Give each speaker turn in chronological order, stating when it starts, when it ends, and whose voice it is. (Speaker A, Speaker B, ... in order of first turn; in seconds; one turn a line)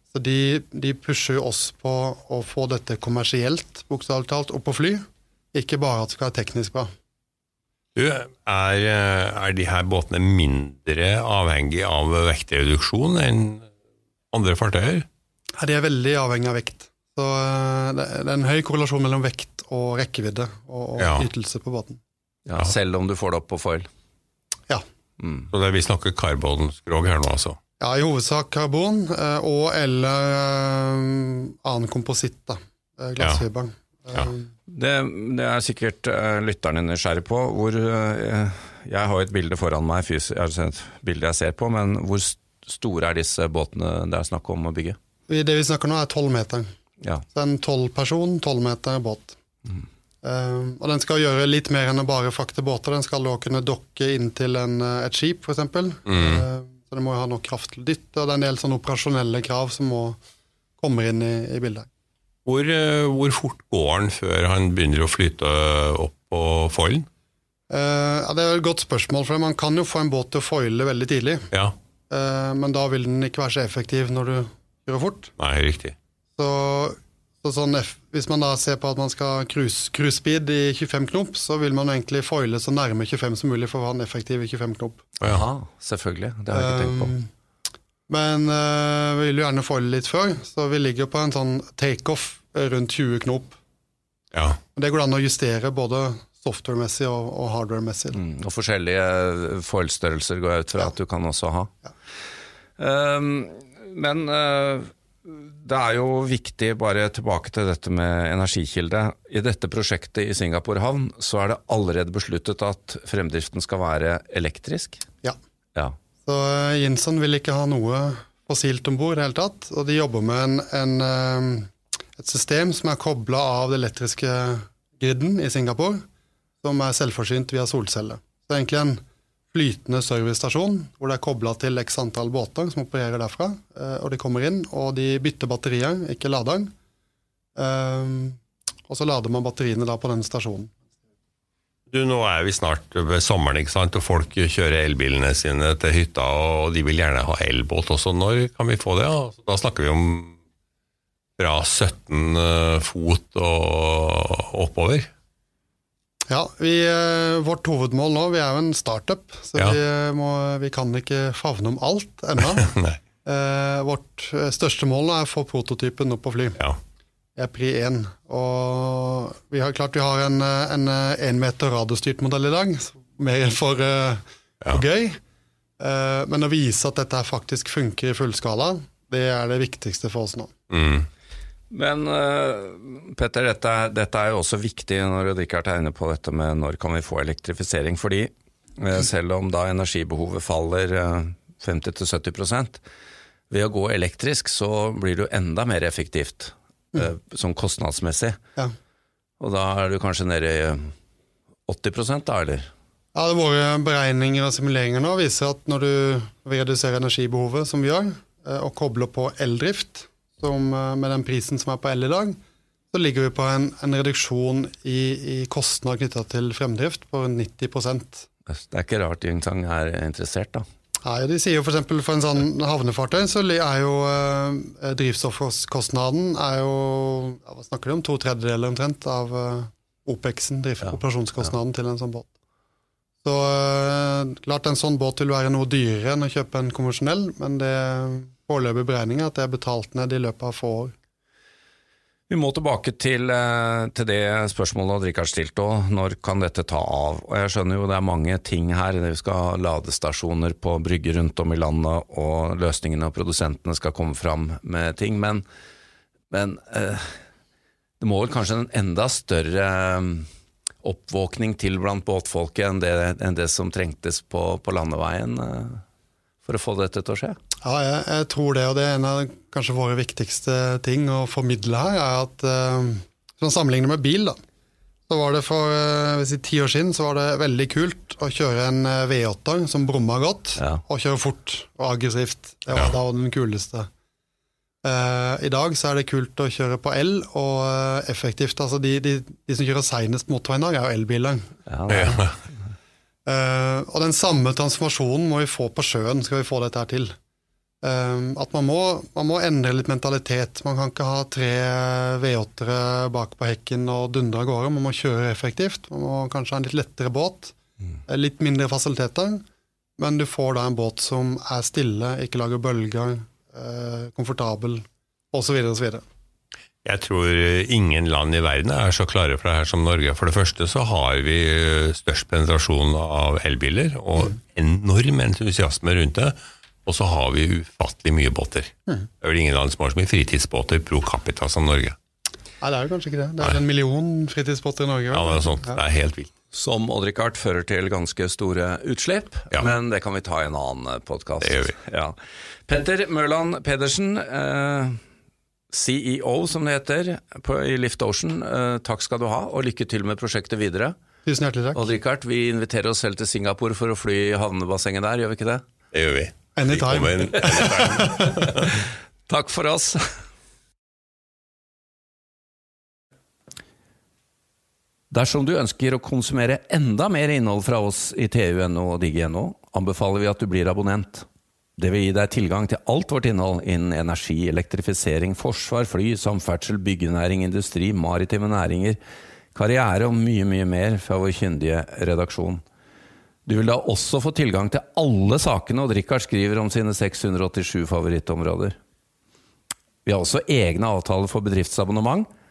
Speaker A: 0.1-5.0
Speaker A: 5.5-6.9
Speaker B: 8.0-13.7
Speaker B: 14.3-15.1
Speaker A: 15.6-22.0
Speaker B: 21.0-21.3
Speaker C: 22.5-23.9
Speaker C: 25.2-25.5
Speaker B: 25.5-27.6
Speaker A: 27.8-34.5
Speaker C: 34.7-45.0
Speaker A: 45.3-46.7
Speaker A: 47.3-49.4
Speaker A: 50.2-60.2
Speaker B: 56.1-56.5
Speaker A: 60.8-61.9
Speaker B: 62.5-67.1
Speaker A: 67.7-71.5
Speaker A: 72.1-75.3
Speaker B: 75.4-76.0
Speaker A: 76.4-85.0
Speaker B: 85.2-85.5
Speaker C: 85.2-87.2
Speaker A: 86.5-87.3
Speaker A: 88.1-93.6
Speaker B: 94.3-94.6
Speaker A: 94.8-98.2
Speaker C: 98.1-101.7
Speaker C: 102.8-115.0
Speaker A: 116.2-126.0
Speaker A: 126.6-129.0
Speaker A: 129.5-136.7
Speaker A: 137.6-140.8
Speaker B: 141.9-150.3
Speaker B: 151.4-155.1
Speaker A: 156.3-162.7
Speaker B: 162.4-163.0
Speaker A: 163.2-166.6
Speaker A: 167.4-175.2
Speaker A: 175.8-180.5
Speaker B: 180.7-181.1
Speaker C: 181.7-192.8
Speaker C: 193.5-198.4
Speaker C: 199.4-200.9
Speaker C: 201.7-202.7
Speaker A: 203.1-212.4
Speaker A: 212.9-218.3
Speaker C: 218.5-220.7
Speaker A: 221.1-232.3
Speaker A: 233.2-240.9
Speaker C: 242.3-255.4
Speaker C: 256.3-257.2
Speaker C: 258.0-260.3
Speaker C: 260.8-265.8
Speaker C: 266.4-267.4
Speaker A: 267.6-274.4
Speaker A: 275.1-283.9
Speaker A: 284.8-291.5
Speaker C: 291.7-292.2
Speaker B: 291.9-292.4
Speaker A: 293.3-297.1
Speaker A: 297.8-307.6
Speaker A: 308.1-309.4
Speaker A: 310.0-316.1
Speaker B: 316.9-332.0
Speaker A: 332.6-335.8
Speaker B: 335.1-336.3
Speaker C: 336.5-345.0
Speaker B: 341.4-341.8
Speaker C: 345.7-350.9
Speaker A: 351.3-351.9
Speaker C: 351.8-355.6
Speaker B: 355.9-358.8
Speaker A: 356.6-358.5
Speaker C: 359.3-360.1
Speaker C: 365.1-379.0
Speaker C: 379.6-382.6
Speaker C: 383.5-388.8
Speaker C: 390.1-392.3